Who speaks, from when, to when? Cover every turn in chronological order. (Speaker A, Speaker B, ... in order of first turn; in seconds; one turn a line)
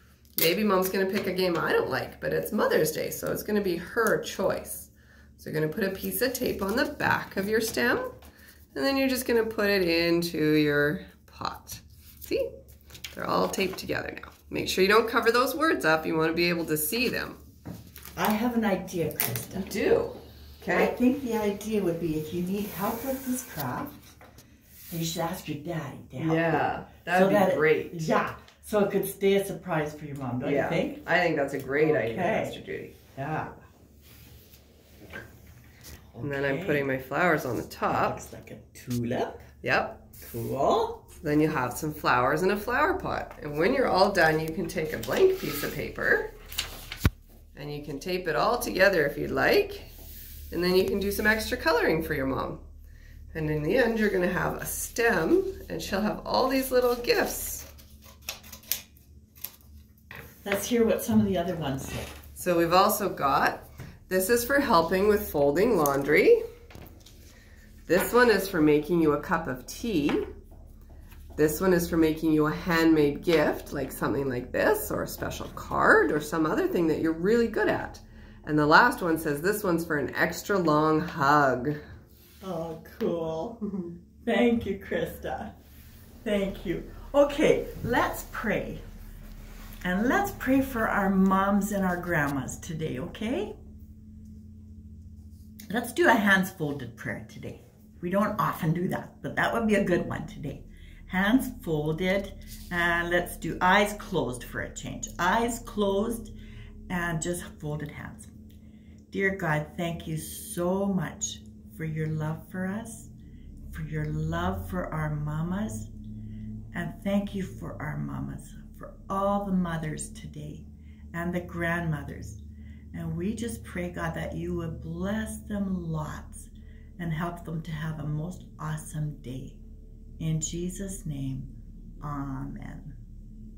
Speaker A: 0.4-8.1
Speaker A: 8.7-12.5
Speaker A: 13.1-17.4
Speaker B: 18.1-19.7
Speaker A: 19.6-20.9
Speaker B: 20.7-24.1
Speaker B: 24.9-31.0
Speaker A: 26.2-28.1
Speaker A: 30.4-33.0
Speaker B: 31.8-32.6
Speaker B: 33.1-33.6
Speaker B: 36.1-36.9
Speaker A: 36.2-38.2
Speaker B: 37.9-39.5
Speaker A: 39.6-40.0
Speaker B: 40.2-41.1
Speaker A: 41.1-46.3
Speaker A: 47.5-49.9
Speaker A: 50.5-52.6
Speaker A: 53.3-57.7
Speaker B: 60.4-62.1
Speaker A: 62.4-66.4
Speaker A: 67.9-70.3
Speaker A: 71.4-81.8
Speaker B: 82.4-83.7
Speaker B: 84.2-85.5
Speaker B: 86.2-88.8
Speaker B: 89.8-93.5
Speaker B: 95.7-106.3
Speaker B: 106.9-108.3
Speaker B: 109.1-113.1
Speaker B: 113.7-115.9
Speaker B: 116.7-122.4
Speaker B: 122.9-129.6
Speaker B: 130.2-131.5
Speaker B: 132.0-133.0